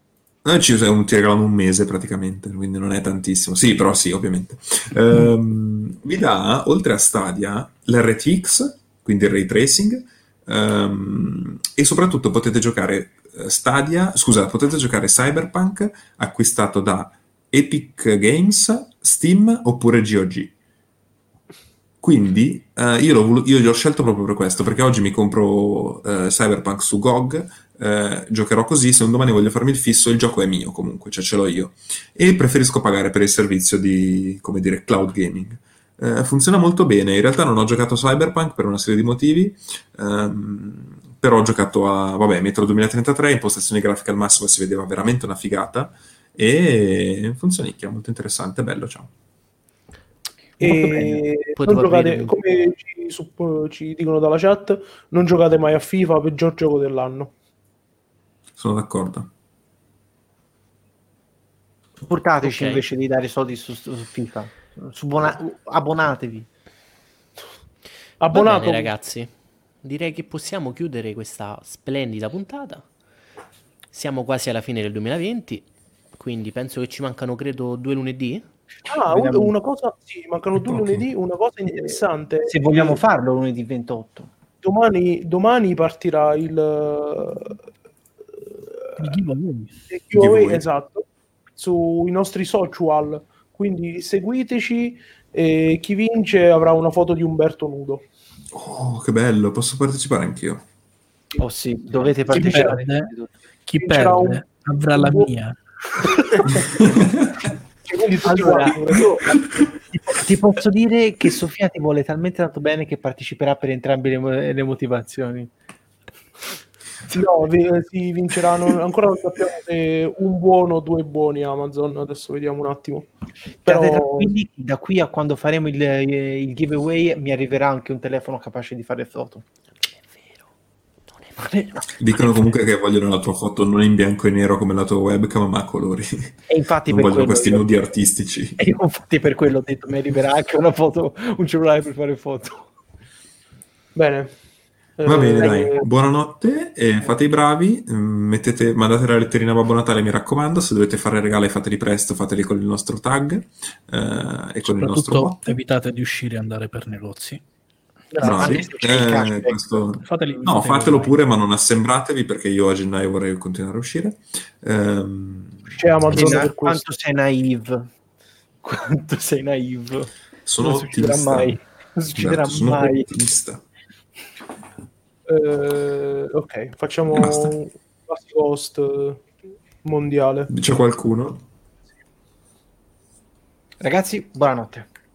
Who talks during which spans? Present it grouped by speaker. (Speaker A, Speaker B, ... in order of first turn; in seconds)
Speaker A: 0.4-20.5, 22.0-49.1, 58.6-59.3, 80.6-81.0, 90.1-90.6, 98.5-100.7, 132.0-138.6, 145.1-155.6, 158.2-165.7, 170.5-171.6, 172.2-173.6, 177.1-177.5, 180.5-181.4
Speaker B: 50.6-57.3, 68.2-68.9, 78.9-83.0, 84.6-87.6, 88.5-89.2, 89.9-98.1, 102.3-102.8, 103.8-105.3, 106.1-106.7, 107.8-109.4, 117.1-123.1, 123.7-124.3, 143.9-144.3, 145.0-145.9, 158.1-158.8, 165.7-166.9, 175.3-179.2, 179.8-180.5
Speaker C: 50.6-51.1, 62.0-66.5, 79.1-79.5, 81.7-84.3, 101.4-103.3, 108.2-115.5, 123.7-129.4, 131.4-132.4, 136.5-137.9, 138.6-142.7, 158.2-160.0, 166.1-167.9, 168.6-173.1, 183.8-184.9
Speaker D: 51.6-52.4, 62.4-62.9, 68.3-69.3, 69.8-72.9, 73.9-78.5, 130.1-130.5, 131.1-131.6
Speaker E: 89.0-89.7, 102.3-103.1, 103.7-105.6, 154.6-157.4, 160.0-161.2